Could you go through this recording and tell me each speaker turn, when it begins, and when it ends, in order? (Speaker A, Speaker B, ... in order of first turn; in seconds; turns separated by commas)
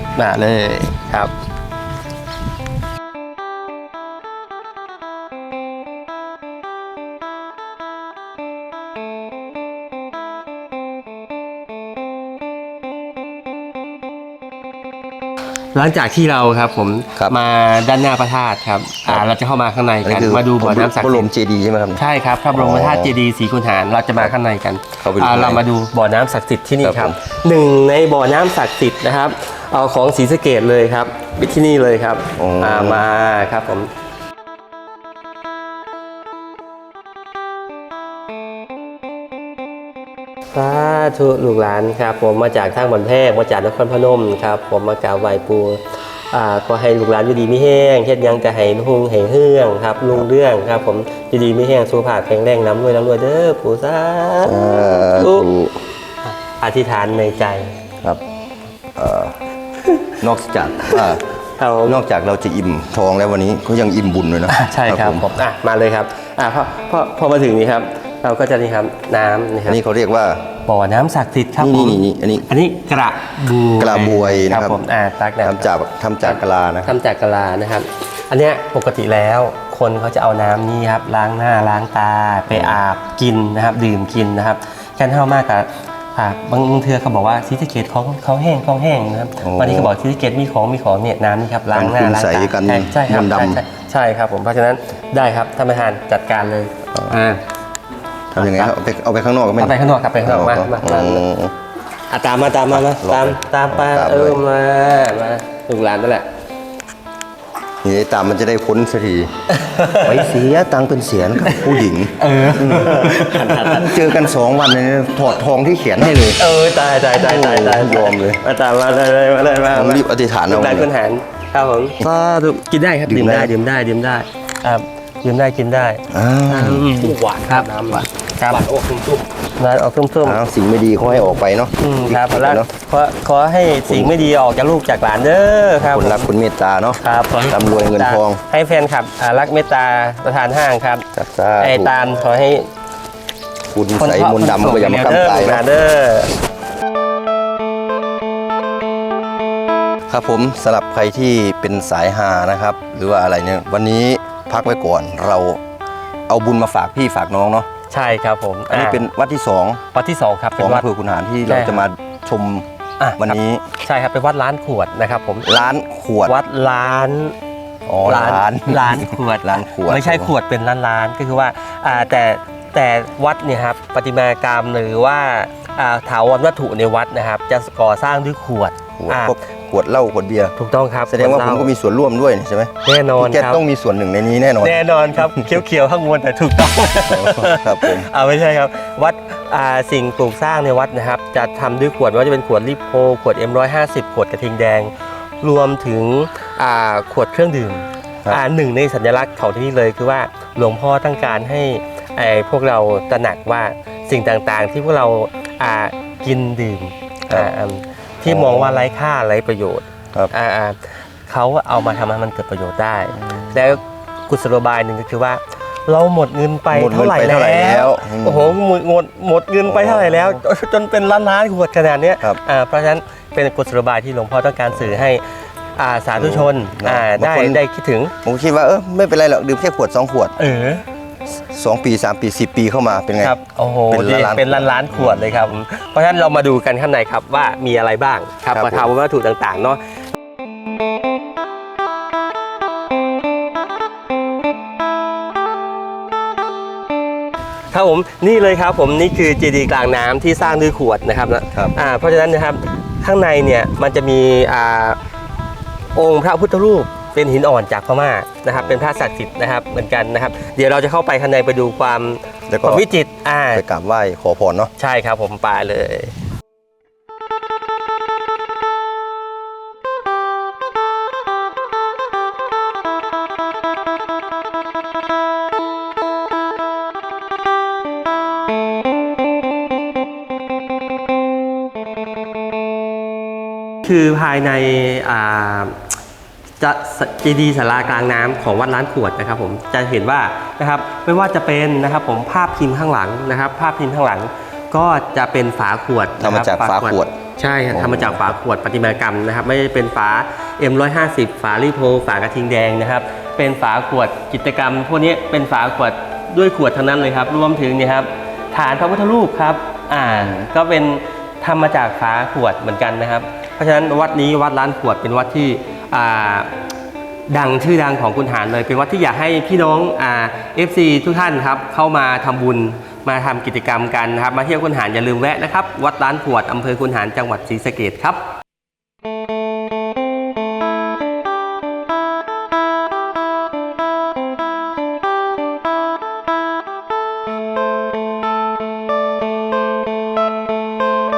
Speaker A: 0.2-1.3, Speaker A: 15.7-21.3, Speaker B: 20.0-22.0, Speaker A: 22.0-33.9, Speaker B: 22.5-23.2, Speaker B: 25.0-25.6, Speaker B: 26.8-27.1, Speaker B: 32.4-33.1, Speaker A: 40.5-55.5, Speaker B: 54.4-55.8, Speaker A: 56.3-57.8, Speaker B: 59.0-59.4, Speaker B: 60.2-61.2, Speaker A: 61.6-62.0, Speaker B: 61.9-65.3, Speaker A: 64.5-69.8, Speaker B: 69.7-70.5, Speaker A: 70.7-75.7, Speaker B: 71.6-72.5, Speaker B: 73.8-74.8, Speaker B: 75.4-77.0, Speaker A: 76.2-97.4, Speaker B: 82.5-82.8, Speaker B: 89.4-89.9, Speaker B: 91.7-93.6, Speaker B: 98.3-101.5, Speaker A: 98.4-98.7, Speaker A: 99.6-101.2, Speaker A: 102.1-106.3, Speaker B: 102.7-104.4, Speaker B: 107.8-109.3, Speaker A: 109.5-110.3, Speaker B: 110.0-116.4, Speaker A: 111.5-114.2, Speaker A: 116.4-127.7, Speaker B: 117.1-118.4, Speaker B: 119.7-120.9, Speaker B: 123.1-123.5, Speaker B: 126.1-126.9, Speaker C: 127.0-129.3, Speaker A: 128.4-128.7, Speaker A: 129.6-130.4, Speaker B: 130.2-132.7, Speaker A: 131.8-136.3, Speaker B: 133.8-134.2, Speaker B: 135.8-138.4, Speaker A: 137.0-141.1, Speaker B: 141.1-141.9, Speaker A: 141.6-142.7, Speaker B: 143.7-145.7, Speaker A: 144.0-146.3, Speaker B: 150.1-155.6, Speaker B: 156.3-157.7, Speaker A: 157.9-159.0, Speaker B: 158.7-159.8, Speaker A: 159.9-160.9, Speaker B: 160.6-162.7, Speaker A: 161.5-161.8, Speaker A: 163.0-165.5, Speaker B: 163.2-163.6, Speaker B: 165.4-166.4, Speaker A: 166.3-167.3, Speaker B: 167.9-170.3, Speaker A: 168.1-179.3, Speaker B: 179.0-180.6, Speaker A: 180.6-181.7, Speaker B: 181.1-185.6, Speaker A: 182.8-183.6, Speaker A: 184.6-225.2, Speaker B: 187.1-188.1, Speaker B: 208.2-208.9, Speaker B: 216.7-218.6, Speaker B: 219.7-220.4, Speaker A: 225.8-228.1, Speaker B: 226.2-227.6, Speaker B: 228.2-230.3, Speaker A: 230.4-230.8, Speaker B: 231.5-233.4, Speaker A: 233.2-239.8, Speaker B: 233.9-235.4, Speaker B: 238.5-238.9, Speaker A: 247.7-255.0, Speaker A: 255.9-263.6, Speaker B: 258.5-258.8, Speaker B: 262.5-262.9, Speaker B: 263.5-264.7, Speaker A: 264.8-266.1, Speaker A: 283.9-285.8, Speaker A: 286.6-316.5, Speaker B: 296.2-297.2, Speaker B: 297.7-298.3, Speaker B: 310.1-310.5, Speaker A: 317.3-328.3